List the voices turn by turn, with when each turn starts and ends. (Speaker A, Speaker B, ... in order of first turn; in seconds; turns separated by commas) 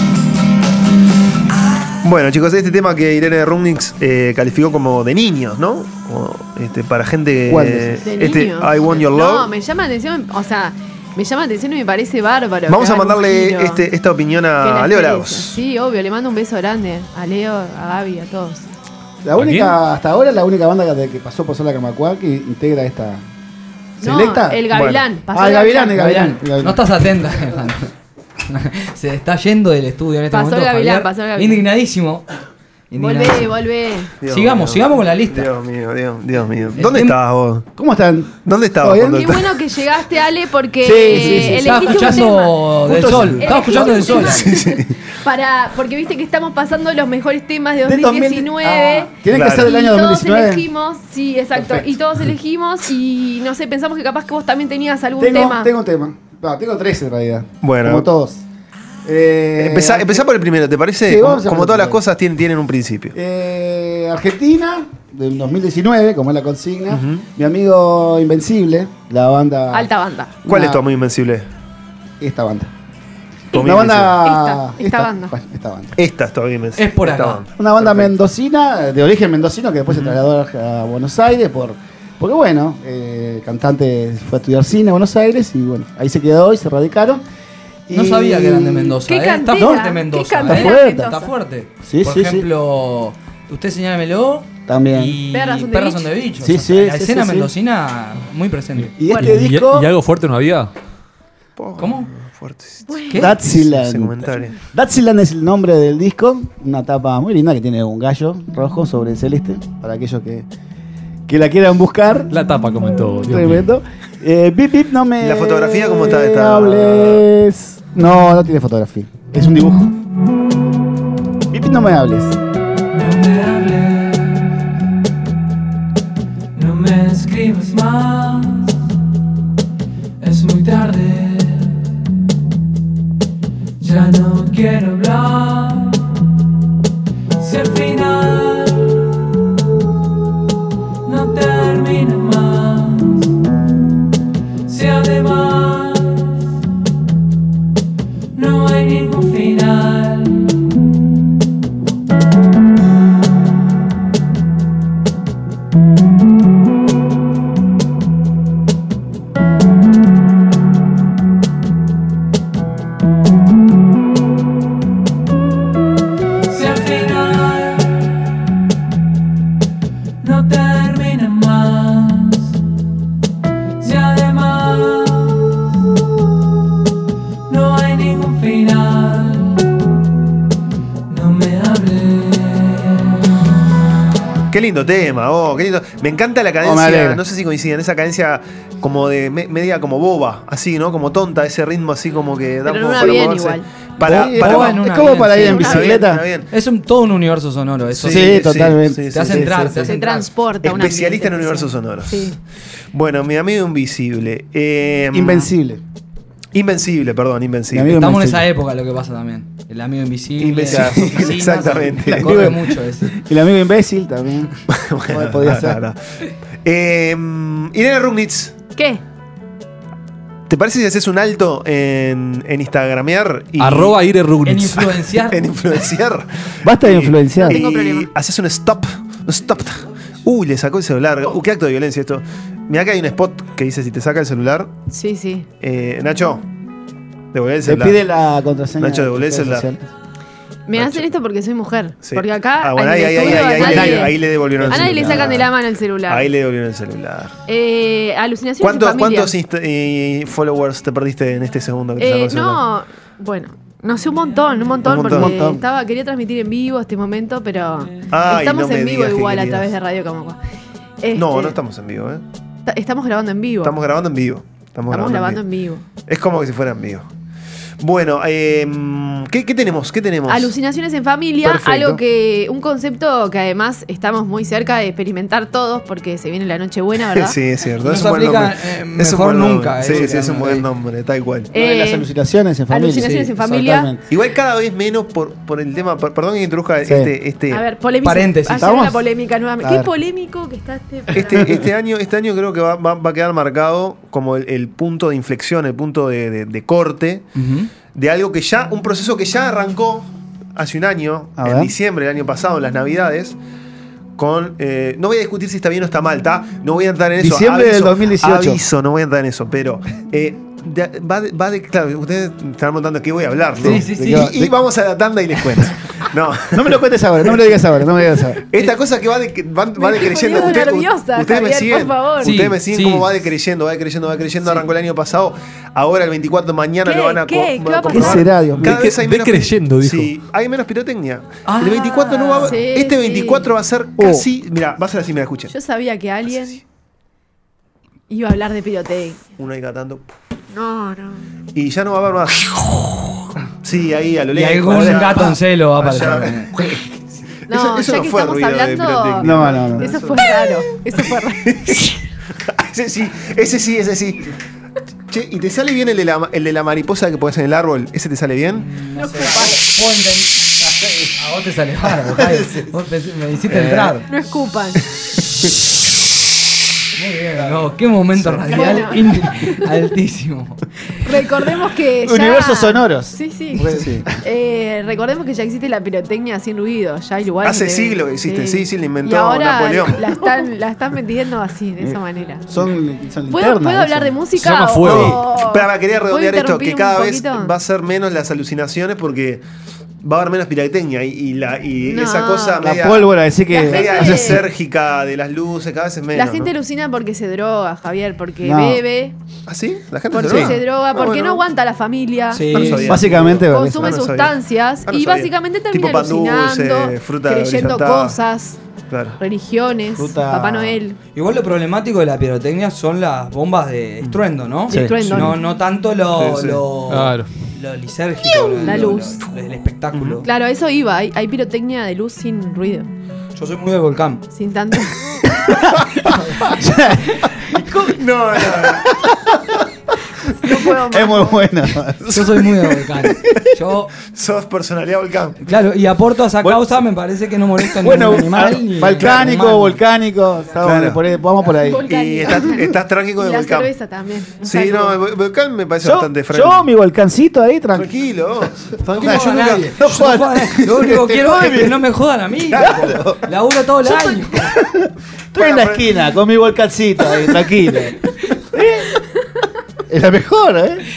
Speaker A: 2.0-9.5, Speaker B: 7.5-8.0, Speaker C: 8.1-13.8, Speaker A: 12.7-15.6, Speaker C: 14.6-18.7, Speaker B: 19.2-23.2, Speaker D: 19.4-19.8, Speaker B: 24.0-24.7, Speaker C: 24.0-26.0, Speaker A: 24.7-25.0, Speaker B: 25.3-26.9, Speaker E: 25.9-27.9, Speaker E: 28.5-32.2, Speaker C: 30.3-31.6, Speaker E: 32.9-33.5, Speaker C: 33.0-34.1, Speaker A: 34.2-37.6, Speaker E: 34.3-35.5, Speaker E: 36.8-37.1, Speaker B: 37.8-39.3, Speaker A: 38.5-39.4, Speaker C: 39.1-42.6, Speaker B: 40.8-42.3, Speaker E: 41.1-44.5, Speaker B: 42.9-43.8, Speaker C: 43.4-55.7, Speaker A: 44.3-44.9, Speaker B: 47.8-50.7, Speaker A: 49.3-49.7, Speaker B: 51.5-52.0, Speaker B: 55.2-58.4, Speaker A: 57.6-58.1, Speaker B: 59.0-60.2, Speaker A: 59.6-63.1, Speaker B: 61.1-62.0, Speaker B: 63.1-69.9, Speaker A: 66.9-67.2, Speaker C: 69.7-70.4, Speaker B: 70.5-70.8, Speaker A: 70.5-71.5, Speaker B: 72.2-72.7, Speaker B: 73.5-76.0, Speaker A: 73.5-74.2, Speaker C: 74.2-75.3, Speaker A: 76.0-78.1, Speaker E: 76.8-77.4, Speaker B: 77.5-87.2, Speaker A: 79.9-80.2, Speaker B: 87.9-89.0, Speaker E: 87.9-99.1, Speaker C: 89.0-91.3, Speaker B: 89.6-89.9, Speaker B: 90.4-91.2, Speaker B: 91.8-92.5, Speaker B: 94.7-95.2, Speaker C: 95.3-96.1, Speaker B: 96.4-97.5, Speaker B: 99.0-99.9, Speaker D: 99.1-100.7, Speaker A: 101.6-104.6, Speaker E: 101.8-102.1, Speaker C: 102.9-103.2, Speaker E: 103.1-103.5, Speaker B: 103.1-110.5, Speaker B: 111.3-112.3, Speaker D: 112.3-113.6, Speaker B: 113.2-119.9, Speaker A: 115.2-117.2, Speaker B: 121.5-122.4, Speaker F: 122.9-124.5, Speaker F: 126.5-128.8, Speaker F: 130.2-131.9, Speaker F: 133.8-136.1, Speaker F: 137.4-139.2, Speaker F: 141.1-143.3, Speaker F: 144.7-146.4, Speaker F: 148.3-150.6, Speaker F: 166.5-168.3, Speaker F: 170.2-172.6, Speaker F: 173.8-175.6, Speaker F: 177.5-179.6, Speaker F: 181.1-183.1, Speaker A: 184.5-194.9, Speaker B: 186.6-187.2, Speaker C: 192.7-193.7, Speaker B: 194.0-196.2, Speaker E: 194.1-195.9, Speaker C: 195.4-195.9, Speaker A: 195.5-196.5, Speaker E: 196.5-200.3, Speaker A: 197.9-199.8, Speaker B: 198.0-199.9, Speaker C: 199.8-202.4, Speaker A: 200.6-202.4, Speaker A: 202.9-205.5, Speaker B: 205.1-205.8, Speaker A: 206.5-208.0, Speaker B: 207.7-208.5, Speaker E: 207.9-213.2, Speaker A: 210.4-212.6, Speaker B: 212.0-214.5, Speaker A: 214.7-216.0, Speaker B: 215.1-215.8, Speaker A: 216.6-218.5, Speaker C: 218.8-219.0, Speaker A: 220.5-224.0, Speaker D: 223.6-224.9, Speaker E: 224.4-225.4, Speaker A: 225.3-234.7, Speaker B: 226.6-227.6, Speaker C: 227.4-228.1, Speaker C: 234.9-235.5, Speaker A: 235.6-236.5, Speaker A: 237.3-238.0, Speaker B: 237.6-239.9, Speaker A: 238.8-239.7, Speaker C: 240.7-246.3, Speaker A: 240.7-241.1, Speaker A: 242.0-245.5, Speaker B: 243.2-245.5, Speaker A: 246.1-247.3, Speaker C: 247.5-249.3, Speaker A: 248.6-252.6, Speaker C: 252.0-260.4, Speaker A: 254.8-255.3, Speaker B: 254.9-255.6, Speaker A: 258.1-259.7, Speaker C: 261.0-261.6, Speaker A: 261.1-262.2, Speaker C: 262.7-263.8, Speaker A: 263.6-265.4, Speaker C: 264.9-265.8, Speaker A: 266.1-267.1, Speaker A: 267.8-270.6, Speaker C: 270.3-277.4, Speaker A: 271.4-272.0, Speaker A: 277.1-281.5, Speaker E: 277.8-280.7, Speaker C: 281.5-282.1, Speaker B: 281.5-284.0, Speaker C: 282.7-283.9, Speaker A: 284.1-287.6, Speaker B: 286.9-287.1, Speaker C: 287.5-291.5, Speaker E: 288.0-288.8, Speaker B: 288.5-289.0, Speaker B: 289.6-289.9, Speaker A: 291.1-297.3, Speaker E: 297.4-297.7, Speaker A: 297.9-303.4, Speaker B: 301.4-301.7, Speaker A: 304.2-316.8, Speaker B: 307.2-308.6, Speaker B: 313.6-314.5, Speaker E: 313.6-314.3, Speaker B: 316.5-318.4, Speaker A: 318.5-335.5, Speaker C: 319.8-322.3, Speaker E: 322.2-323.1, Speaker C: 326.9-328.3, Speaker B: 327.9-328.8, Speaker D: 328.6-330.1, Speaker E: 331.5-332.6, Speaker C: 332.4-333.5, Speaker B: 334.0-334.2, Speaker C: 335.5-336.6, Speaker C: 338.1-339.2, Speaker A: 339.4-340.1, Speaker C: 340.5-341.2, Speaker A: 341.5-342.8, Speaker A: 343.6-346.8, Speaker E: 344.3-346.5, Speaker B: 344.7-345.3, Speaker A: 347.5-350.5, Speaker C: 347.5-351.9, Speaker B: 349.2-349.9, Speaker A: 351.4-354.3, Speaker A: 355.1-358.7, Speaker E: 358.6-364.1, Speaker C: 359.0-359.6, Speaker B: 362.0-362.7, Speaker B: 363.5-363.9, Speaker C: 364.1-364.8, Speaker E: 367.0-370.6, Speaker B: 367.4-367.7, Speaker B: 368.2-368.9, Speaker C: 368.5-369.6, Speaker C: 371.0-382.5, Speaker B: 372.0-374.1, Speaker A: 377.4-380.2, Speaker B: 382.5-384.3, Speaker C: 383.3-387.5, Speaker D: 384.4-385.2, Speaker A: 384.8-389.4, Speaker A: 390.0-396.5, Speaker C: 391.9-392.7, Speaker B: 392.6-394.4, Speaker C: 393.5-394.4, Speaker C: 396.1-399.1, Speaker B: 398.4-398.8, Speaker A: 399.5-401.4, Speaker C: 400.1-408.6, Speaker B: 400.2-400.5, Speaker E: 402.3-403.1, Speaker A: 402.5-408.2, Speaker B: 402.8-404.0, Speaker A: 408.9-409.2, Speaker C: 409.2-411.0, Speaker B: 410.0-410.8, Speaker E: 411.1-420.3, Speaker C: 414.7-415.3, Speaker B: 414.7-415.3, Speaker A: 415.0-415.3, Speaker A: 416.1-416.6, Speaker D: 416.9-417.3, Speaker C: 418.6-419.2, Speaker A: 419.9-420.2, Speaker C: 420.2-422.9, Speaker E: 423.4-424.2, Speaker C: 424.3-425.0, Speaker B: 425.3-427.7, Speaker E: 427.6-427.9, Speaker A: 427.8-428.9, Speaker B: 428.5-429.6, Speaker C: 430.4-431.4, Speaker B: 430.4-432.3, Speaker E: 432.1-433.9, Speaker B: 433.2-433.5, Speaker A: 434.0-435.4, Speaker E: 435.4-439.8, Speaker B: 437.8-441.9, Speaker A: 439.0-439.4, Speaker A: 440.6-441.0, Speaker C: 441.4-445.0, Speaker A: 441.8-443.7, Speaker A: 444.4-446.7, Speaker B: 445.8-447.9, Speaker A: 447.8-449.8, Speaker B: 448.9-451.8, Speaker E: 449.0-454.5, Speaker B: 452.5-453.3, Speaker A: 452.5-452.9, Speaker B: 454.5-458.0, Speaker A: 455.4-455.9, Speaker B: 458.5-459.0, Speaker B: 459.9-460.8